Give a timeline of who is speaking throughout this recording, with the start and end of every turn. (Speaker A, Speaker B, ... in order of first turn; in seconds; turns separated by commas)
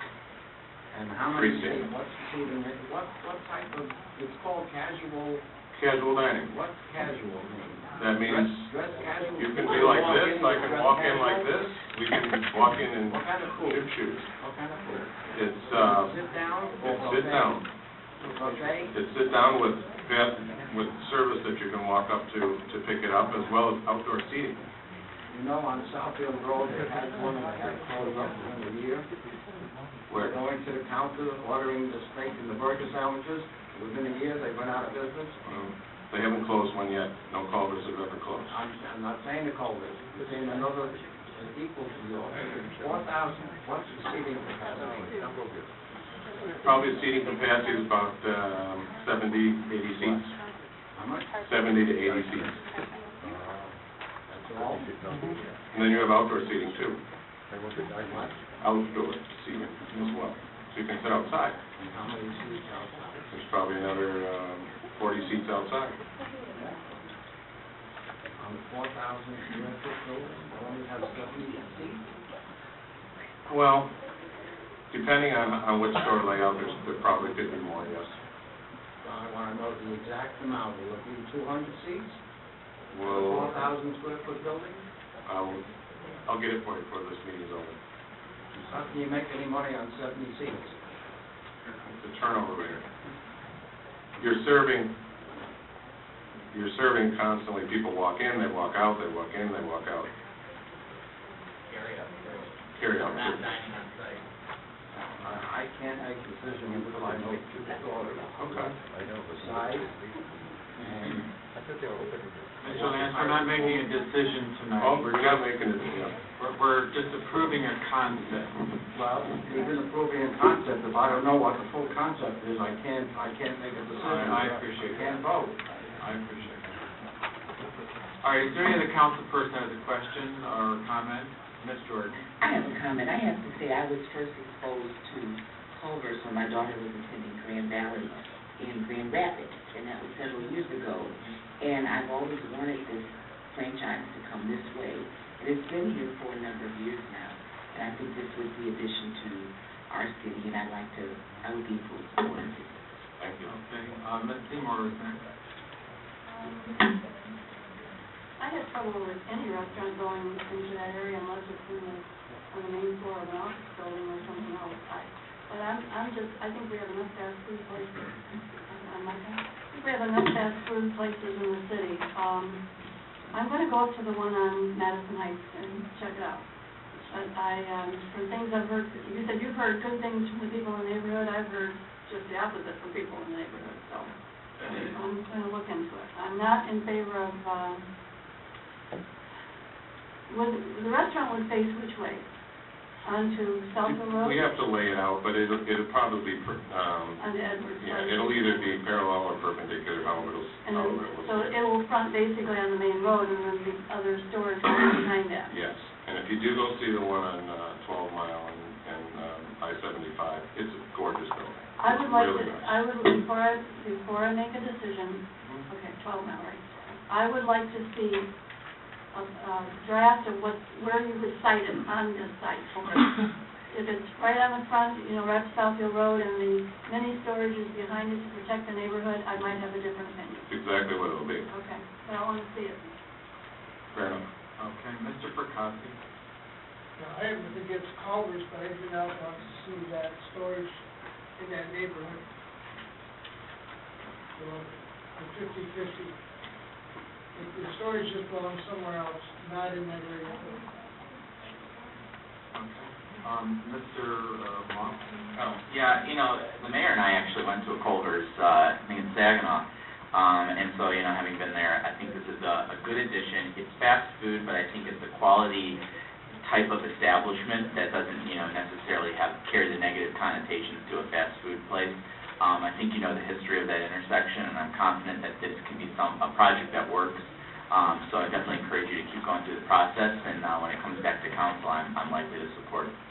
Speaker A: 0.9-5.5, Speaker B: 1.3-1.9, Speaker B: 5.7-6.5, Speaker A: 6.5-11.6, Speaker B: 8.0-8.7, Speaker B: 9.4-14.3, Speaker A: 13.1-13.8, Speaker A: 14.4-15.1, Speaker B: 15.3-16.1, Speaker A: 15.7-17.6, Speaker B: 16.8-17.6, Speaker A: 18.2-18.9, Speaker B: 18.9-24.6, Speaker A: 25.3-29.1, Speaker A: 30.1-35.4, Speaker B: 35.5-38.5, Speaker A: 38.5-45.1, Speaker B: 46.6-50.3, Speaker A: 51.0-51.3, Speaker B: 51.4-52.5, Speaker A: 53.4-53.7, Speaker A: 54.3-54.9, Speaker B: 55.7-57.0, Speaker A: 58.0-58.4, Speaker B: 58.6-61.6, Speaker A: 61.8-63.3, Speaker B: 63.3-66.0, Speaker A: 68.4-72.0, Speaker B: 73.5-74.0, Speaker B: 74.9-78.1, Speaker A: 79.0-82.2, Speaker B: 82.9-83.6, Speaker A: 83.0-84.8, Speaker B: 85.3-85.7, Speaker B: 86.2-87.8, Speaker A: 88.6-90.7, Speaker B: 91.8-92.8, Speaker B: 94.2-94.9, Speaker B: 96.5-100.1, Speaker B: 102.8-103.5, Speaker A: 105.2-108.3, Speaker B: 108.4-108.7, Speaker A: 109.3-109.9, Speaker A: 110.8-111.3, Speaker C: 110.8-111.2, Speaker C: 112.6-115.4, Speaker A: 112.7-113.8, Speaker B: 114.8-116.2, Speaker C: 116.4-118.6, Speaker A: 118.9-125.5, Speaker C: 124.0-125.2, Speaker C: 126.0-126.8, Speaker C: 128.2-132.2, Speaker D: 132.4-152.8, Speaker B: 153.2-153.6, Speaker C: 153.4-155.2, Speaker E: 156.3-156.9, Speaker E: 158.4-172.6, Speaker E: 173.3-187.8, Speaker E: 190.3-192.3, Speaker E: 193.1-194.4, Speaker B: 193.8-197.2, Speaker E: 197.2-198.8, Speaker B: 197.8-201.6, Speaker E: 200.7-205.5, Speaker B: 205.5-212.7, Speaker E: 211.8-218.3, Speaker E: 219.1-223.0, Speaker E: 223.7-230.5, Speaker B: 230.5-231.4, Speaker E: 231.5-232.9, Speaker B: 233.9-234.2, Speaker C: 234.6-236.0, Speaker F: 237.0-240.8, Speaker F: 241.4-242.2, Speaker F: 244.4-246.1, Speaker F: 247.3-250.6, Speaker C: 252.5-255.1, Speaker G: 255.4-265.8, Speaker G: 266.4-282.9